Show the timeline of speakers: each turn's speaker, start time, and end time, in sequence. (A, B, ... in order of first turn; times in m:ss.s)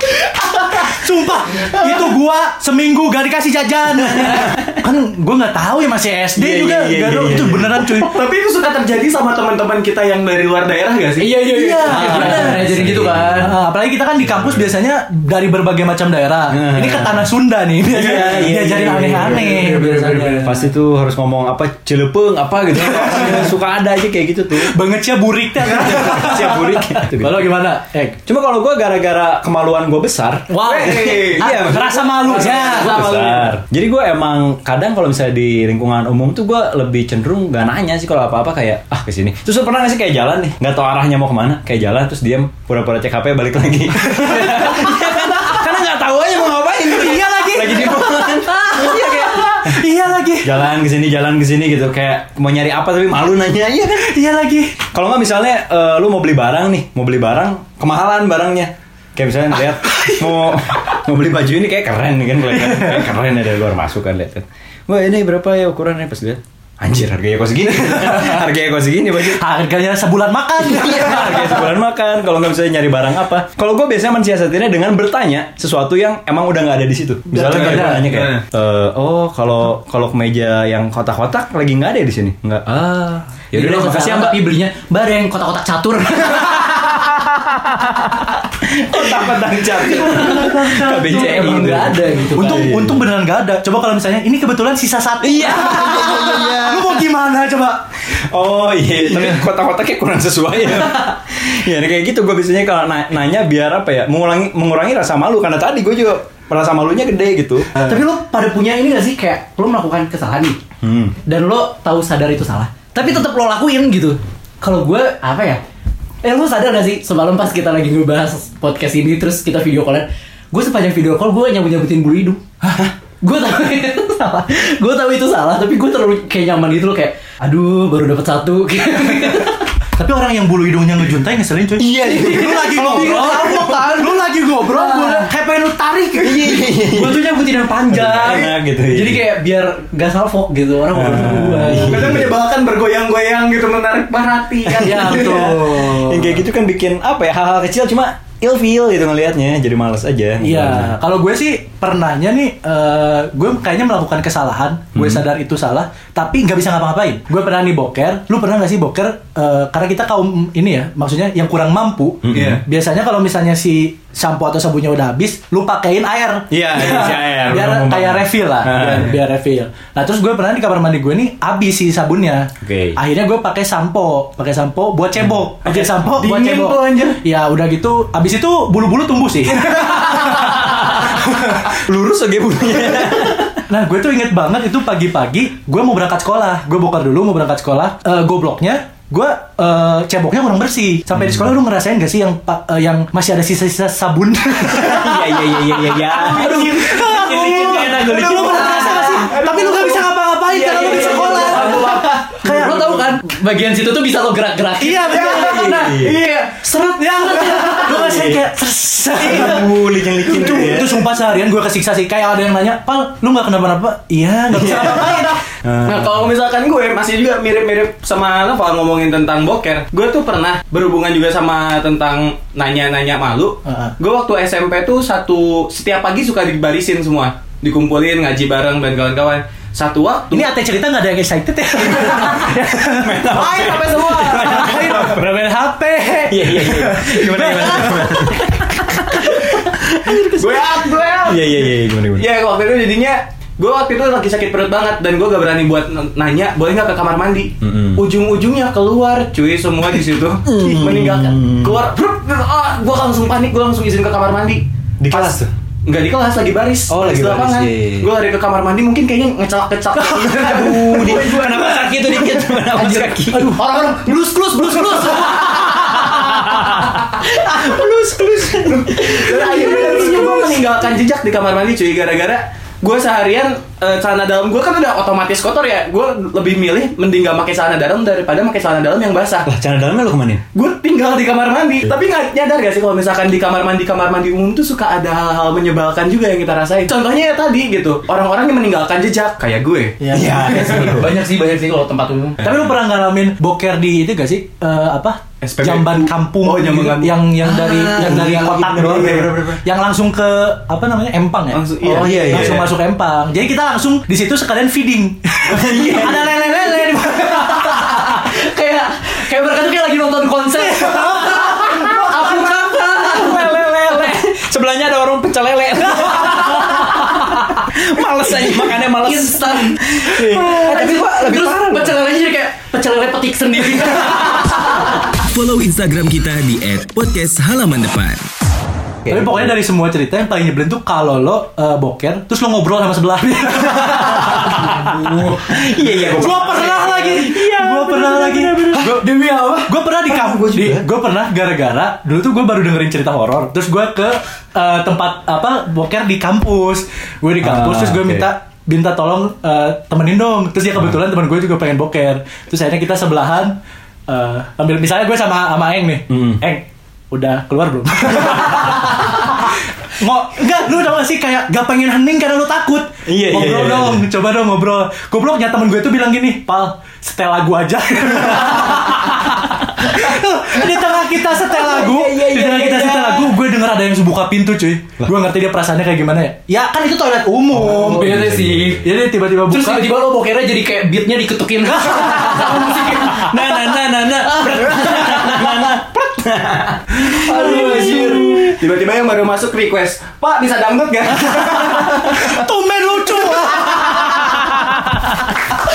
0:00.2-0:08.1 A
0:04.2-0:04.7 B
0:06.4-0:07.8 B
0:07.8-0:11.3 C
0:11.2-0:13.5 D
0:11.5-0:12.8 A
0:11.9-0:13.5 B
0:13.4-0:20.3 A
0:14.3-0:14.6 B
0:16.5-0:17.2 B
0:17.9-0:24.7 B
0:19.4-0:20.2 C
0:22.7-0:23.5 A
0:24.6-0:28.2 A
0:25.6-0:27.5 B
0:28.2-0:49.8 B
0:30.5-0:33.0 A
0:30.6-0:33.6 C
0:44.1-0:45.4 A
0:46.9-0:50.6 A
0:50.4-0:54.1 B
0:54.0-0:54.8 A
0:54.9-1:09.4 B
1:02.5-1:03.0 A
1:09.3-1:11.6 A
1:10.6-1:24.4 B
1:17.3-1:18.1 A
1:17.4-1:18.4 C
1:23.5-1:27.2 D
1:28.6-1:33.0 B
1:29.8-1:37.9 A
1:31.0-1:32.7 D
1:35.2-1:37.0 B
1:38.1-1:47.7 B
1:47.7-1:50.6 D
1:50.8-1:51.2 B
1:51.2-1:55.6 D
1:56.2-2:02.4 D
2:03.2-2:09.7 D
2:10.0-2:16.4 A
2:11.8-2:13.8 B
2:12.1-2:13.8 D
2:13.2-2:14.1 C
2:14.6-2:15.3 D
2:16.2-2:17.3 B
2:16.4-2:22.2 D
2:17.9-2:19.3 B
2:18.2-2:18.5 C
2:20.9-2:22.3 B
2:21.8-2:25.8 C
2:24.6-2:30.9 B
2:24.8-2:26.0 D
2:25.1-2:25.8 A
2:30.4-3:00.2 A
2:34.9-2:35.2 B
2:42.2-2:42.6 B
2:42.3-2:42.6 C
2:46.5-2:49.1 B
2:52.6-2:53.0 B
2:55.6-2:57.2 C
2:59.9-3:03.6 B
3:03.7-3:23.1 A
3:11.1-3:11.5 B
3:14.6-3:19.0 B
3:16.2-3:19.3 D
3:16.5-3:16.9 C
3:18.0-3:20.0 C
3:20.5-3:22.1 B
3:20.6-3:28.1 D
3:20.8-3:22.5 C
3:24.8-3:25.7 A
3:25.3-3:26.2 B
3:25.9-3:26.3 C
3:27.3-3:35.4 A
3:27.9-3:28.4 B
3:29.2-3:31.0 B
3:34.5-3:36.3 B
3:35.8-3:50.5 C
3:43.6-3:43.9 A
3:50.3-3:53.7 A
3:52.4-3:55.4 B
3:53.3-3:54.8 C
3:54.3-3:58.4 A
3:56.3-4:00.5 B
4:00.4-4:23.0 C
4:01.2-4:02.3 B
4:07.6-4:08.0 B
4:10.4-4:11.8 B
4:15.0-4:15.5 B
4:16.9-4:18.1 B
4:20.2-4:23.6 B
4:23.3-4:27.8 D
4:26.1-4:26.7 B
4:28.0-4:29.1 B
4:28.5-4:39.4 C
4:28.9-4:30.6 D
4:39.4-4:40.4 B
4:40.5-4:50.9 C
4:50.1-4:51.2 B
4:50.5-4:52.5 D
4:52.4-5:08.1 A
4:55.4-4:57.1 C
4:57.4-4:58.2 B
4:57.8-4:59.6 C
5:01.5-5:02.7 C
5:01.9-5:02.6 B
5:05.4-5:06.3 B
5:06.8-5:14.2 D
5:10.6-5:11.9 A
5:12.1-5:22.0 B
5:18.4-5:25.0 D
5:25.2-5:28.2 E
5:29.0-5:29.5 B
5:29.1-5:34.9 A
5:33.9-5:39.0 B
5:36.1-6:18.2 A
5:40.1-5:40.8 B
5:47.4-5:48.3 B
5:56.1-5:56.4 B
6:03.1-6:04.0 B
6:11.4-6:13.3 B
6:17.5-6:18.8 B
6:17.6-6:18.9 D
6:18.7-6:19.9 A
6:19.5-6:23.7 D
6:23.0-6:28.6 B
6:24.3-6:25.2 D
6:27.3-6:32.3 C
6:27.6-6:28.2 A
6:31.9-6:35.2 A